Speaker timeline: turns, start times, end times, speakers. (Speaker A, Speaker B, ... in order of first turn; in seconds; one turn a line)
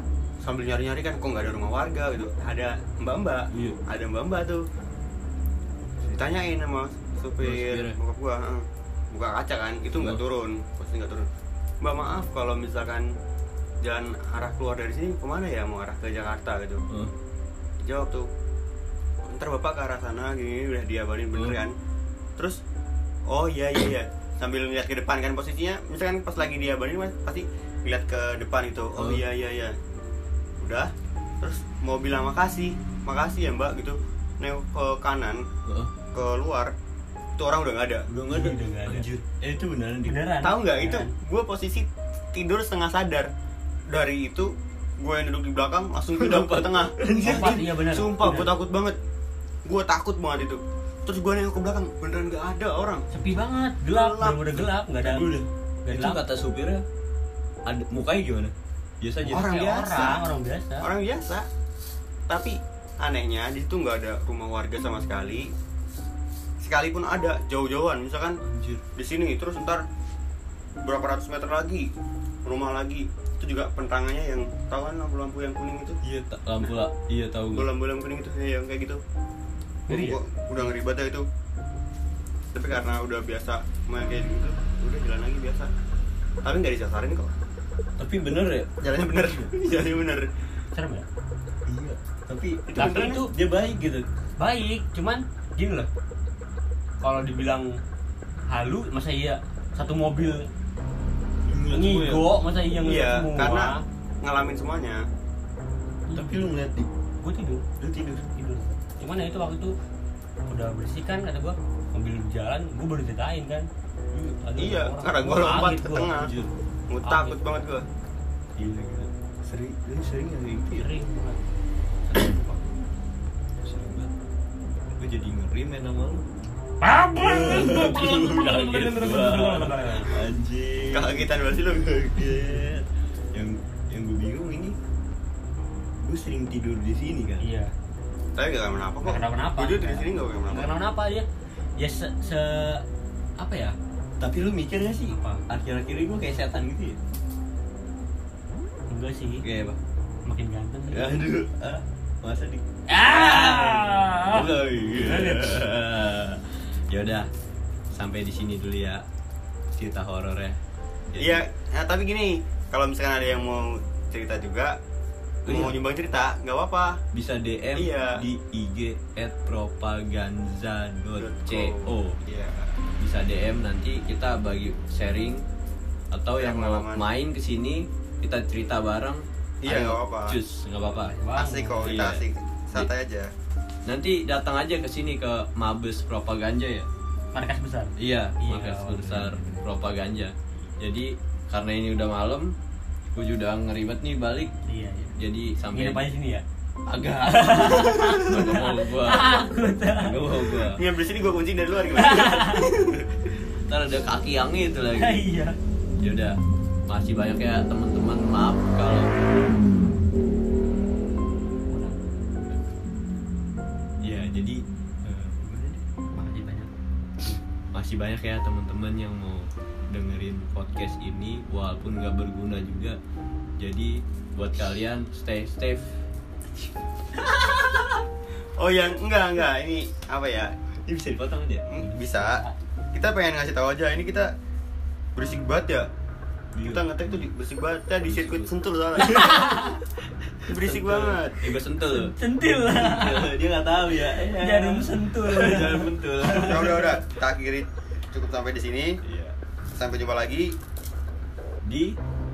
Speaker A: 0.4-4.6
Speaker B: 3.5-3.8
Speaker A: 6.1-11.3
Speaker B: 7.4-8.0
Speaker B: 9.9-10.2
Speaker A: 11.8-13.1
Speaker A: 13.8-16.8
Speaker A: 17.8-18.3
Speaker A: 19.2-21.7
Speaker A: 23.3-29.8
Speaker B: 29.0-29.2
Speaker A: 30.6-35.4
Speaker B: 35.6-35.9
Speaker A: 36.1-36.7
Speaker A: 37.4-38.0
Speaker B: 38.1-40.2
Speaker C: 38.3-39.2
Speaker C: 40.0-41.1
Speaker A: 40.4-43.3
Speaker A: 43.9-49.0
Speaker B: 46.1-47.7
Speaker C: 47.2-48.5
Speaker A: 49.6-53.1
Speaker C: 53.1-56.2
Speaker A: 53.9-54.5
Speaker B: 55.0-56.8
Speaker B: 57.6-59.5
Speaker C: 59.2-60.9
Speaker A: 59.3-60.2
Speaker A: 60.8-61.5
Speaker A: 62.3-65.5
Speaker A: 66.6-68.4
Speaker B: 68.4-68.8
Speaker A: 68.9-69.8
Speaker A: 70.8-71.9
Speaker A: 72.4-76.0
Speaker B: 76.0-77.7
Speaker A: 77.5-79.0
Speaker C: 79.9-80.2
Speaker A: 79.9-81.3
Speaker A: 82.5-85.7
Speaker A: 86.4-87.3
Speaker B: 88.0-89.5
Speaker A: 88.8-90.3
Speaker C: 90.7-91.0
Speaker B: 91.7-94.0
Speaker A: 92.7-93.2
Speaker C: 92.8-93.3
Speaker C: 94.4-95.9
Speaker C: 97.0-97.7
Speaker C: 98.5-100.5
Speaker B: 101.4-102.3
Speaker C: 101.7-103.8
Speaker A: 102.8-105.0
Speaker C: 106.1-106.5
Speaker B: 106.1-106.9
Speaker C: 107.2-107.6
Speaker B: 107.8-108.2
Speaker C: 108.2-109.7
Speaker C: 110.5-113.7
Speaker C: 114.4-116.1
Speaker A: 114.5-116.3
Speaker B: 115.7-116.5
Speaker A: 116.9-117.9
Speaker C: 117.0-117.5
Speaker B: 118.6-120.9
Speaker C: 120.7-121.5
Speaker C: 122.0-122.6
Speaker B: 123.6-124.1
Speaker B: 124.9-126.3
Speaker C: 126.8-130.2
Speaker B: 127.1-131.3
Speaker A: 130.9-132.4
Speaker B: 132.1-134.8
Speaker B: 136.0-137.5
Speaker C: 137.4-137.7
Speaker A: 138.3-140.7
Speaker C: 139.0-141.3
Speaker C: 141.8-142.8
Speaker C: 143.4-143.8
Speaker B: 144.2-147.0
Speaker C: 145.1-145.4
Speaker C: 148.9-149.4
Speaker B: 149.4-149.8
Speaker C: 150.2-151.2
Speaker B: 150.9-157.3
Speaker C: 152.9-155.6
Speaker B: 157.9-159.0
Speaker B: 159.7-160.6
Speaker B: 161.1-161.4
Speaker A: 161.2-164.8
Speaker B: 165.4-165.8
Speaker A: 165.5-167.0
Speaker B: 167.1-172.2
Speaker A: 167.8-168.2
Speaker A: 171.2-172.8
Speaker B: 173.0-175.4
Speaker B: 176.1-181.1
Speaker A: 176.4-177.0
Speaker A: 179.6-180.4
Speaker C: 181.0-181.9
Speaker A: 181.3-183.3
Speaker B: 181.8-182.2
Speaker B: 183.8-186.9
Speaker C: 187.3-189.7
Speaker B: 188.0-192.5
Speaker B: 193.1-194.5
Speaker C: 194.7-195.1
Speaker B: 195.2-196.0
Speaker C: 195.7-196.4
Speaker B: 196.9-199.4
Speaker C: 197.2-200.6
Speaker B: 199.9-200.8
Speaker A: 200.7-203.2
Speaker C: 201.9-202.7
Speaker B: 203.7-205.2
Speaker C: 204.9-205.6
Speaker B: 206.0-209.1
Speaker C: 211.7-212.0
Speaker B: 214.0-215.8
Speaker C: 216.1-216.7
Speaker B: 217.7-223.0
Speaker B: 223.6-226.0
Speaker B: 227.2-227.6
Speaker A: 228.6-230.5
Speaker B: 230.9-231.7
Speaker A: 231.7-234.3
Speaker C: 231.8-232.5
Speaker A: 235.2-235.9
Speaker B: 236.5-237.2
Speaker A: 236.6-239.7
Speaker B: 238.0-239.8
Speaker C: 239.1-239.8
Speaker A: 240.4-241.4
Speaker B: 240.5-246.8
Speaker C: 241.9-243.3
Speaker C: 244.1-247.0
Speaker A: 246.4-249.0
Speaker B: 249.0-249.3
Speaker A: 249.7-250.6
Speaker B: 251.6-252.0